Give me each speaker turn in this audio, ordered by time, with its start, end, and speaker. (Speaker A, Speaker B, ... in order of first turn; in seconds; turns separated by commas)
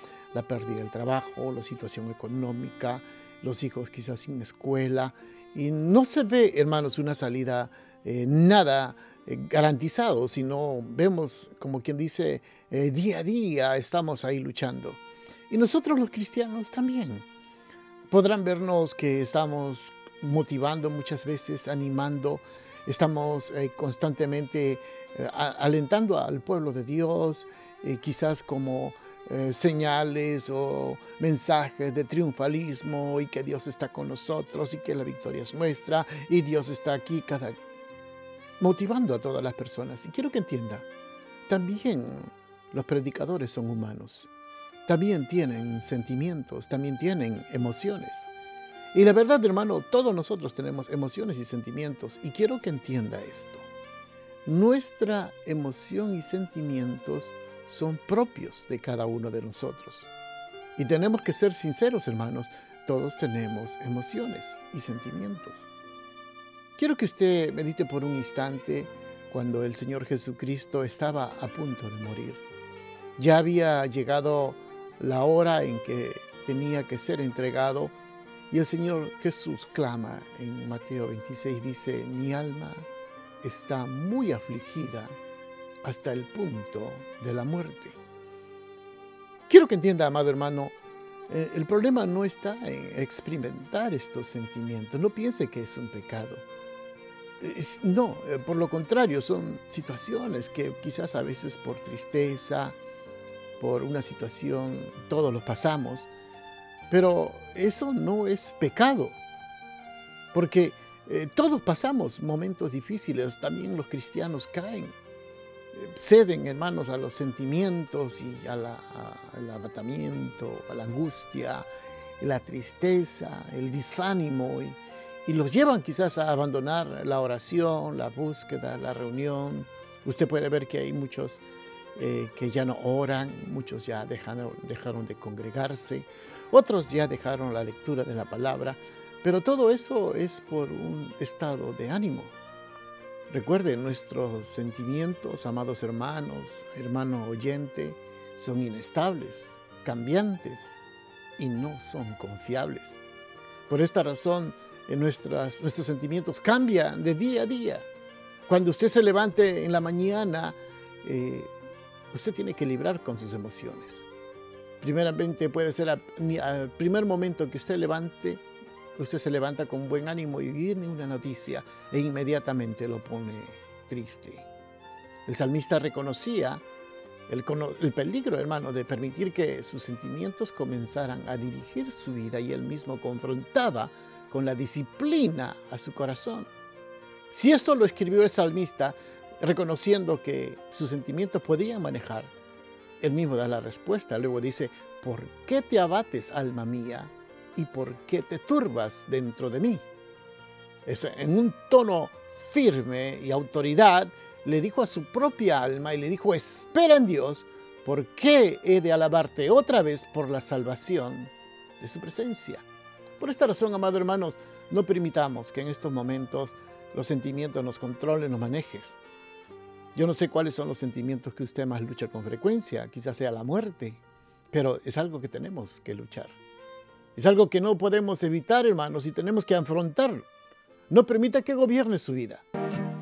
Speaker A: 0.3-17.2, Speaker A: 18.1-37.6, Speaker A: 38.6-40.9, Speaker A: 41.5-44.3, Speaker A: 44.9-48.3, Speaker A: 48.9-53.6, Speaker A: 54.4-60.1, Speaker A: 60.8-65.7, Speaker A: 66.8-72.4, Speaker A: 73.2-77.9, Speaker A: 78.5-82.9, Speaker A: 83.4-85.2, Speaker A: 85.8-88.0, Speaker A: 89.5-90.8, Speaker A: 91.3-96.4, Speaker A: 97.4-102.8, Speaker A: 103.6-106.1, Speaker A: 106.9-109.2, Speaker A: 110.3-114.9, Speaker A: 115.7-121.7, Speaker A: 122.2-131.4, Speaker A: 131.9-142.3, Speaker A: 143.3-150.8, Speaker A: 151.4-153.0, Speaker A: 153.7-157.9, Speaker A: 158.5-161.5, Speaker A: 162.1-164.0, Speaker A: 164.8-168.4, Speaker A: 168.9-174.5, Speaker A: 175.2-176.6, Speaker A: 177.3-186.5, Speaker A: 187.3-192.3, Speaker A: 193.0-199.8, Speaker A: 200.8-212.6, Speaker A: 213.2-219.0, Speaker A: 219.9-226.4, Speaker A: 227.2-230.3, Speaker A: 230.9-232.4